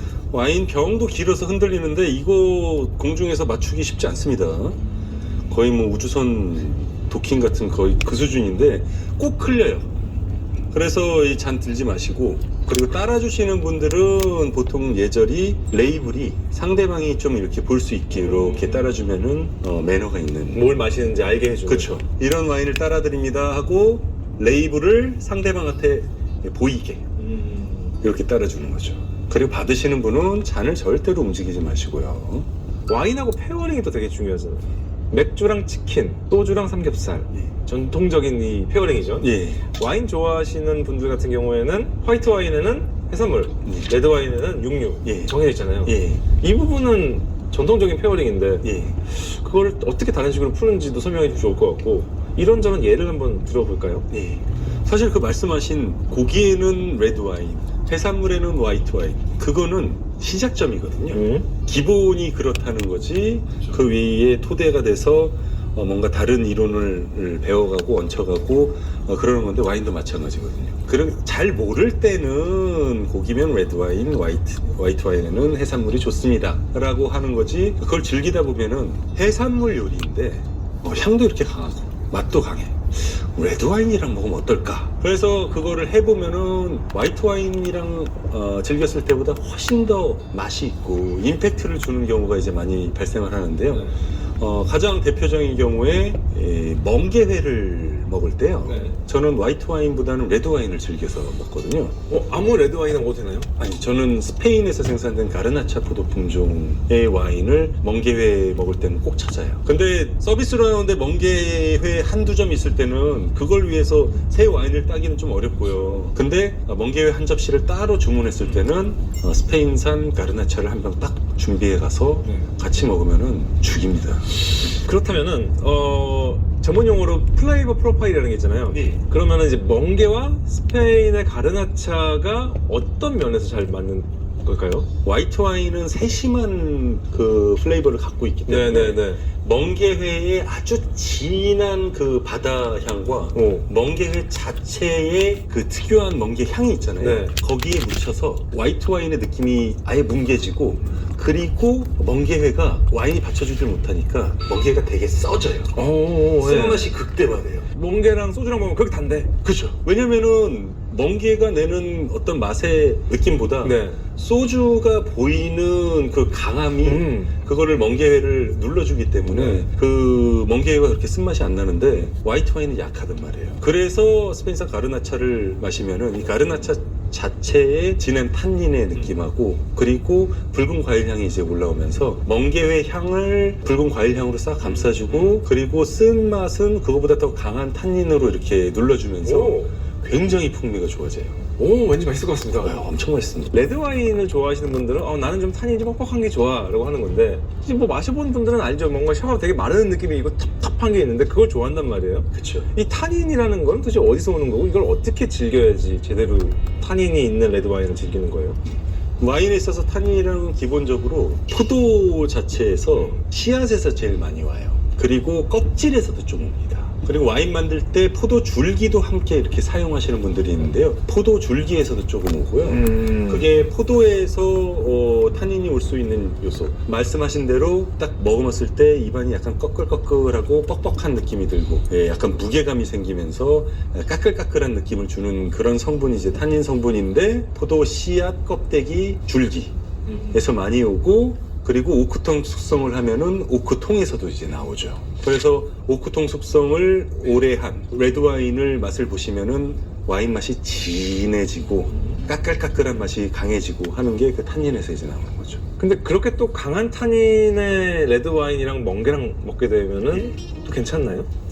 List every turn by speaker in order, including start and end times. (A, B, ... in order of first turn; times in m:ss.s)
0:00.3-0:04.8 A
0:05.5-0:10.0 A
0:10.7-0:20.7 A
0:18.1-0:19.0 B
0:20.5-0:22.0 B
0:21.6-0:27.0 A
0:27.2-0:28.0 B
0:28.0-0:32.5 A
0:32.9-0:54.0 B
0:39.2-0:39.6 A
0:43.6-0:43.9 A
0:45.0-0:46.2 A
0:48.6-0:49.0 A
0:54.1-1:42.0 A
1:01.1-1:01.5 B
1:33.7-1:34.0 B
1:38.6-1:39.0 B
1:42.1-1:43.5 B
1:43.6-2:04.7 A
2:02.2-2:02.5 B
2:04.6-2:14.9 B
2:08.7-2:09.0 A
2:15.0-2:35.8 A
2:18.5-2:19.2 B
2:23.3-2:23.6 B
2:27.0-2:27.3 B
2:35.7-2:36.9 B
2:36.4-2:37.7 A
2:37.7-2:39.4 B
2:39.4-3:11.4 A
2:43.6-2:44.0 B
2:46.8-2:47.3 B
2:49.3-2:49.7 B
3:04.6-3:05.3 B
3:09.2-3:09.7 B
3:11.6-3:12.8 B
3:12.5-3:13.7 A
3:13.5-3:28.6 B
3:22.3-3:22.7 A
3:29.2-3:59.7 A
3:42.6-3:43.5 B
4:00.0-4:00.4 B
4:00.3-4:15.6 A
4:15.8-4:21.3 B